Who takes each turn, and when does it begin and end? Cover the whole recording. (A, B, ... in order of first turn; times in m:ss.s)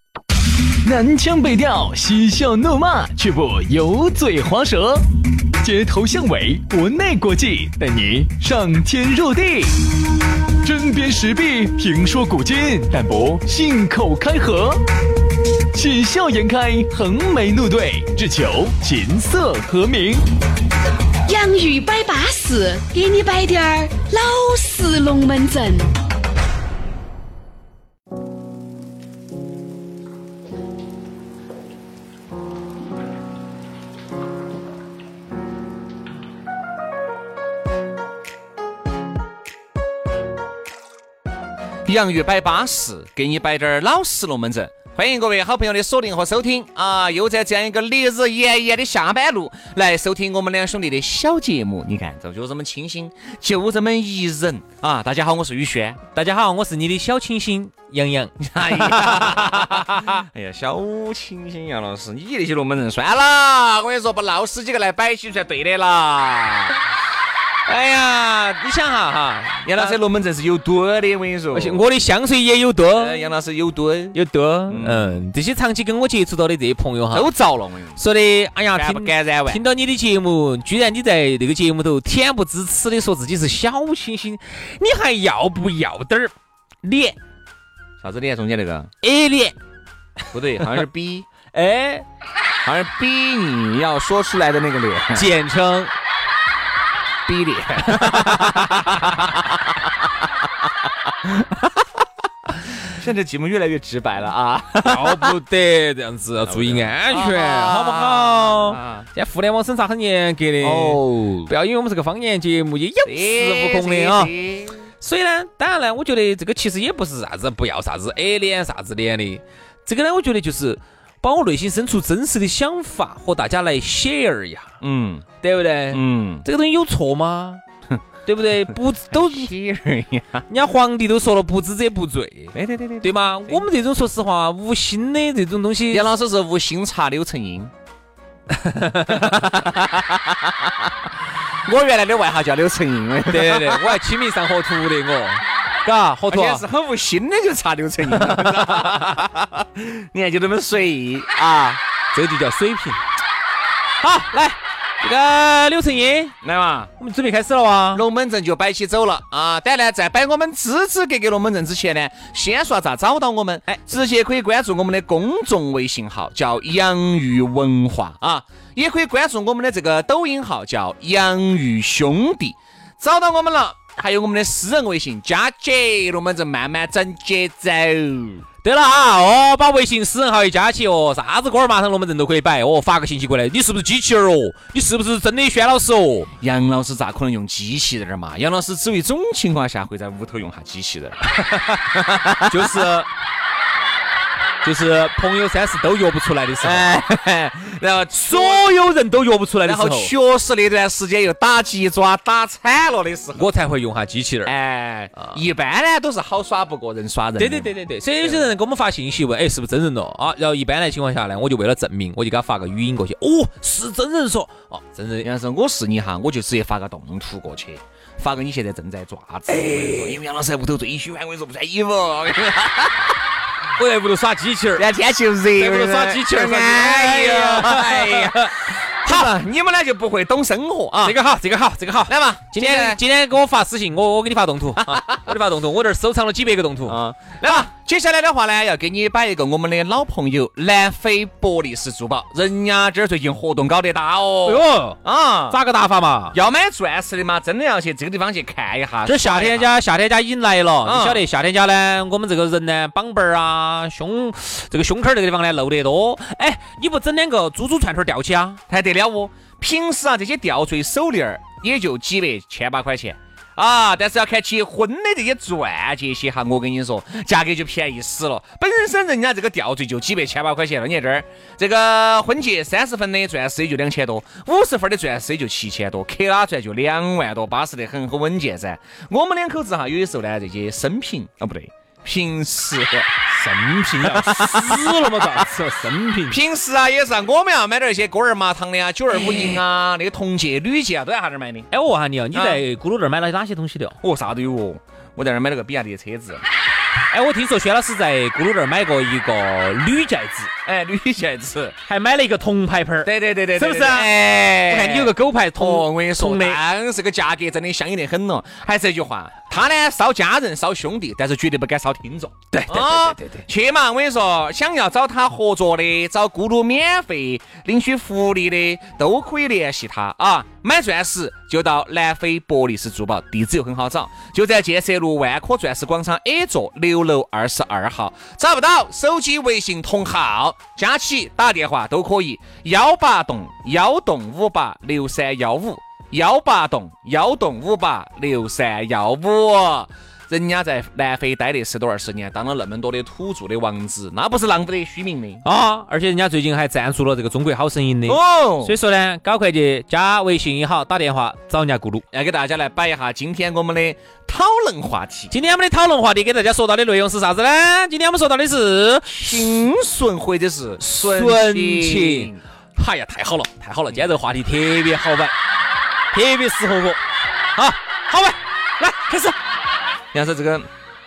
0:00.8-0:05.0 A
0:05.6-0:09.8 A
0:10.6-0:14.8 A
0:15.7-0:20.2 A
0:21.3-0:25.9 B
0:41.8-0:56.0 C
0:56.1-1:00.2 D
0:58.4-1:06.8 C
1:07.6-1:10.0 D
1:09.6-1:11.8 C
1:11.5-1:13.2 D
1:13.0-1:14.2 C
1:14.1-1:17.3 D
1:14.7-1:15.2 C
1:17.1-1:18.0 C
1:18.0-1:27.2 D
1:18.7-1:19.6 C
1:28.0-1:28.9 C
1:29.0-1:29.6 D
1:30.3-1:31.3 C
1:31.5-1:32.0 D
1:32.6-1:35.3 C
1:35.1-1:35.9 D
1:37.3-1:39.5 C
1:38.0-1:39.3 D
1:41.2-1:41.7 C
1:42.9-1:45.4 C
1:44.8-1:54.3 D
1:46.5-1:49.1 C
1:50.6-1:51.5 C
1:53.0-1:54.8 C
1:55.0-2:04.7 D
2:04.8-2:05.2 C
2:05.4-2:07.6 D
2:05.9-2:06.4 C
2:08.2-2:09.5 D
2:09.1-2:10.5 C
2:10.5-2:16.1 D
2:12.5-2:13.6 C
2:15.9-2:17.7 C
2:18.5-2:19.6 D
2:19.1-2:20.9 C
2:21.6-2:24.0 C
2:23.2-2:26.6 D
2:26.3-2:31.8 C
2:28.1-2:29.2 D
2:32.1-2:33.0 D
2:34.0-2:36.4 D
2:36.4-2:36.9 C
2:37.0-2:38.0 D
2:37.9-2:58.4 C
2:58.6-3:06.3 D
3:06.4-3:11.2 C
3:11.4-3:11.8 D
3:11.9-3:12.8 C
3:12.4-3:13.1 D
3:14.6-3:16.9 D
3:16.6-3:18.6 C
3:18.3-3:20.1 D
3:19.6-3:23.5 C
3:23.4-3:24.5 D
3:24.4-3:28.5 C
3:27.4-3:35.3 D
3:35.2-3:43.2 C
3:39.5-3:40.1 D
3:43.8-3:44.8 D
3:44.8-3:51.2 C
3:45.5-3:49.3 D
3:50.9-3:57.6 D
3:52.1-3:53.0 C
3:54.8-3:55.3 C
3:56.9-4:05.6 C
4:04.4-4:06.4 D
4:06.3-4:09.7 C
4:09.0-4:18.6 D
4:10.8-4:11.2 C
4:18.7-4:43.2 C
4:43.3-4:46.4 D
4:44.0-4:45.4 C
4:46.3-4:51.7 C
4:51.7-4:54.0 D
4:52.3-4:52.6 C
4:54.0-4:56.4 C
4:57.1-5:00.5 D
5:00.6-5:01.7 C
5:01.8-5:06.6 D
5:03.0-5:45.4 C
5:12.5-5:13.4 D
5:45.4-5:52.0 D
5:48.0-5:48.8 C
5:52.1-5:55.3 C
5:55.3-5:59.6 D
5:59.1-6:02.4 C
6:00.8-6:05.3 D
6:06.1-6:07.0 D
6:07.6-6:09.3 D
6:10.1-6:10.7 C